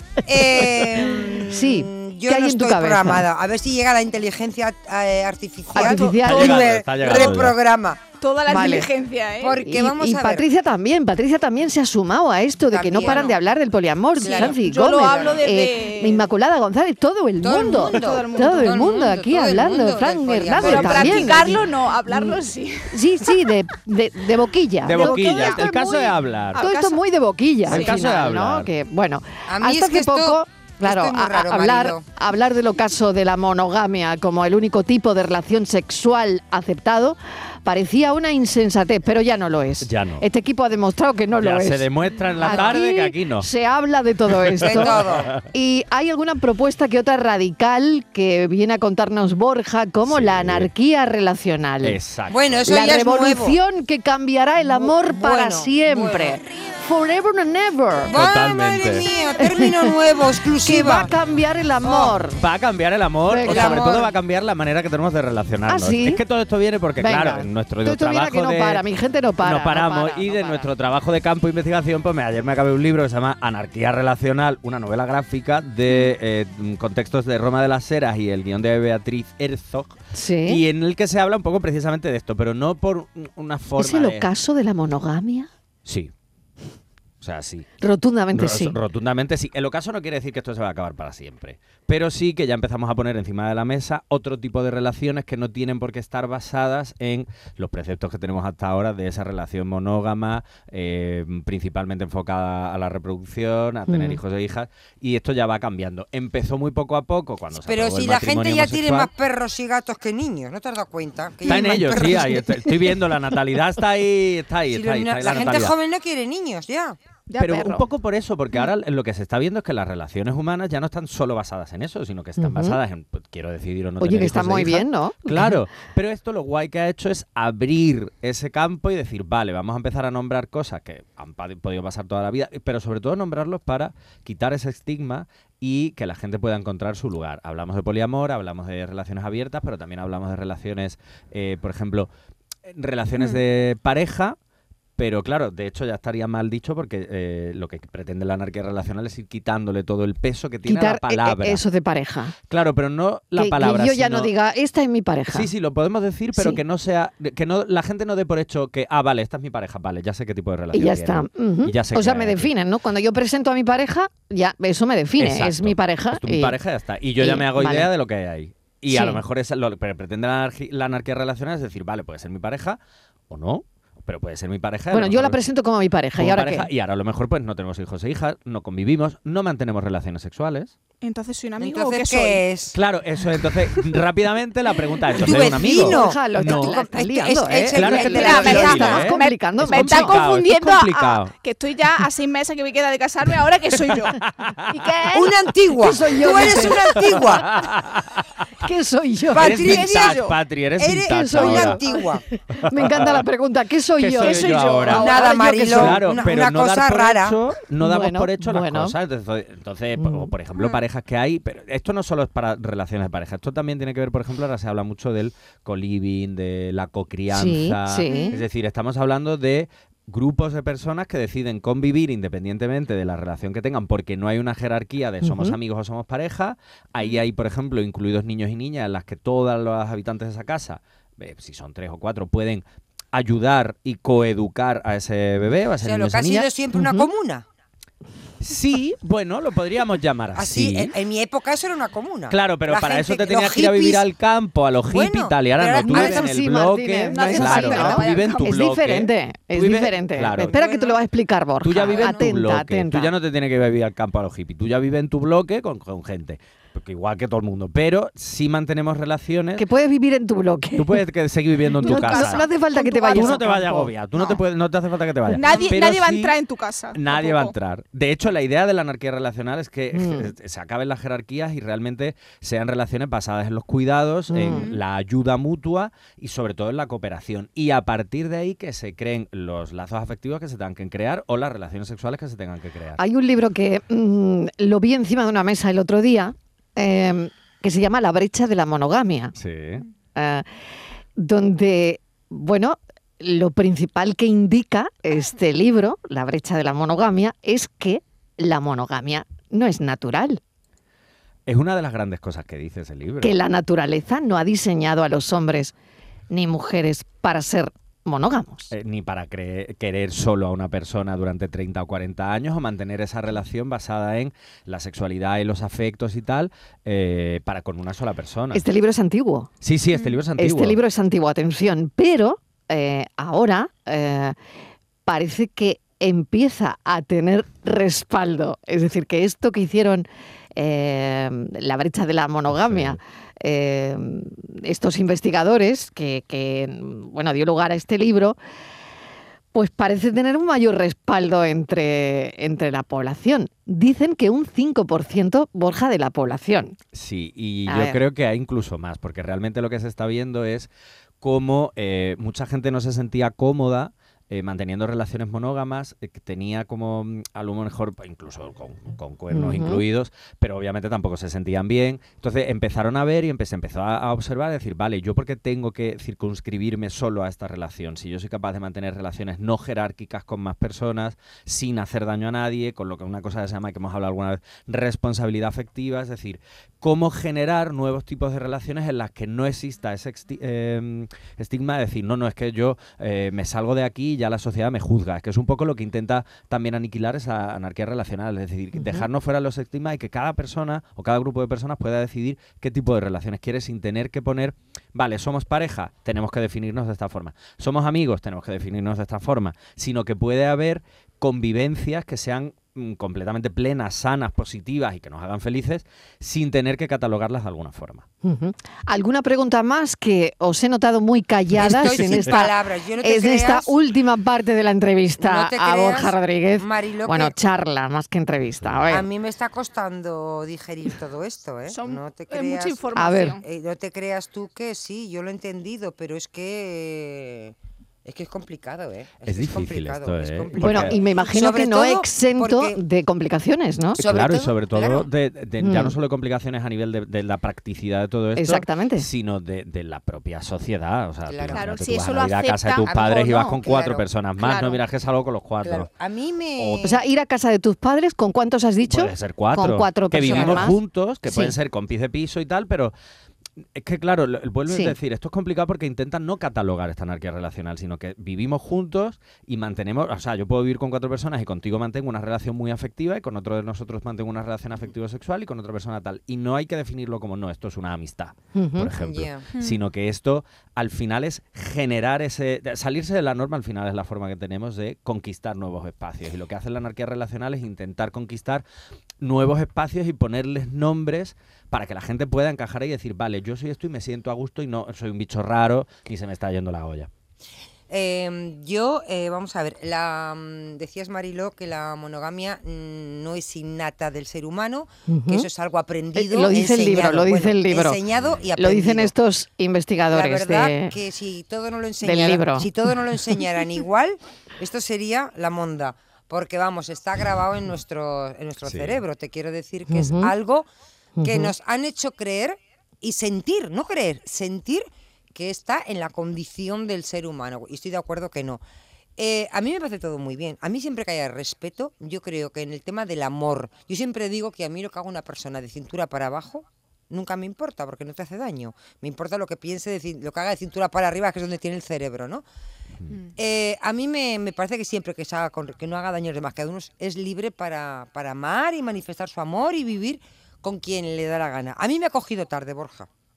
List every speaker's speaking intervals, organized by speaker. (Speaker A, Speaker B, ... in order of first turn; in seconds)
Speaker A: 0.2-8.0, 9.4-10.4, 12.7-13.4, 14.2-15.4, 17.4-21.6, 29.5-32.0, 42.4-42.7, 44.6-45.3, 52.3-53.6, 54.6-56.4, 58.0-61.1, 61.9-62.2, 63.5-64.1, 107.6-112.4, 114.7-117.0, 181.6-182.8, 185.1-189.1, 195.1-197.5, 199.3-200.2, 200.8-202.2, 204.9-207.4, 235.8-237.4, 240.3-244.1, 244.9-246.3, 250.5-251.0, 251.9-252.3, 411.6-413.7, 415.2-417.3, 418.9-422.8, 423.4-432.8, 434.0-435.1, 441.3-441.7, 442.9-444.1, 445.6-447.0, 450.3-450.7, 469.0-469.5, 487.9-499.1, 500.1-510.7, 511.2-518.6, 519.2-532.4, 533.4-543.1
Speaker B: 1.4-3.2, 5.7-6.6, 8.5-8.9, 9.6-25.7, 26.6-52.0, 52.7-58.1, 59.4-59.9, 60.6-62.4, 63.2-64.0, 65.7-66.2, 67.0-70.7, 80.1-80.6, 83.8-85.5, 87.8-88.8, 103.9-104.2, 111.5-112.2, 122.4-122.8, 124.0-125.6, 150.7-152.3, 153.3-155.5, 156.3-156.6, 160.7-166.6, 167.2-167.9, 168.9-169.2, 174.9-176.7, 185.3-190.2, 195.8-197.3, 198.6-199.7, 201.1-206.3, 207.8-209.0, 210.0-210.3, 217.3-218.3, 225.2-225.6, 236.7-237.1, 245.8-253.1, 259.6-261.0, 261.8-264.4, 269.9-270.3, 274.3-274.7, 283.0-289.4, 290.1-290.4, 291.2-300.4, 303.2-305.7, 306.3-308.7, 318.5-319.5, 320.4-324.4, 325.1-338.4, 339.5-346.8, 347.7-348.0, 359.3-359.8, 388.7-389.1, 408.2-419.1, 423.0-423.4, 430.6-434.0, 435.6-436.0, 438.4-439.1, 446.8-451.6, 454.7-455.0, 468.5-468.9, 495.1-495.5, 496.2-498.0, 498.6-500.9, 502.0-502.7, 509.9-510.3, 511.2-511.5
Speaker C: 5.8-6.1, 8.2-9.6, 14.2-16.3, 17.7-18.8, 20.6-23.0, 24.9-27.0, 27.7-28.0, 117.3-117.9, 181.0-182.4, 188.0-195.3, 199.7-200.4, 204.2-205.2, 218.1-218.4, 247.1-248.5, 261.8-263.4, 265.3-267.6, 274.4-274.8, 421.7-423.4, 441.5-443.5, 444.4-444.8
Speaker D: 6.2-7.6, 24.9-26.7, 27.7-28.7, 39.8-40.3, 41.4-43.5, 44.6-45.1, 50.1-50.7, 51.8-52.7, 58.1-59.1, 62.3-68.8, 69.4-84.3, 85.9-86.1, 87.2-87.7, 88.3-109.1, 111.5-115.8, 117.4-142.1, 142.7-144.4, 145.0-151.6, 152.5-154.3, 155.3-162.5, 165.2-172.8, 173.3-175.5, 176.2-180.7, 182.7-186.8, 187.5-191.3, 193.9-194.9, 196.6-198.2, 199.4-201.8, 202.6-203.2, 204.0-236.5, 238.4-241.0, 242.3-250.6, 251.6-259.7, 260.8-262.5, 263.1-266.4, 266.9-283.0, 289.4-289.9, 301.5-303.4, 308.7-318.7, 319.6-320.8, 332.5-333.0, 346.9-350.7, 351.2-408.1, 411.7-412.1, 429.3-431.0, 433.9-445.9, 446.6-447.0, 448.8-452.9, 453.8-478.7, 479.2-487.1, 498.2-498.5, 508.6-509.0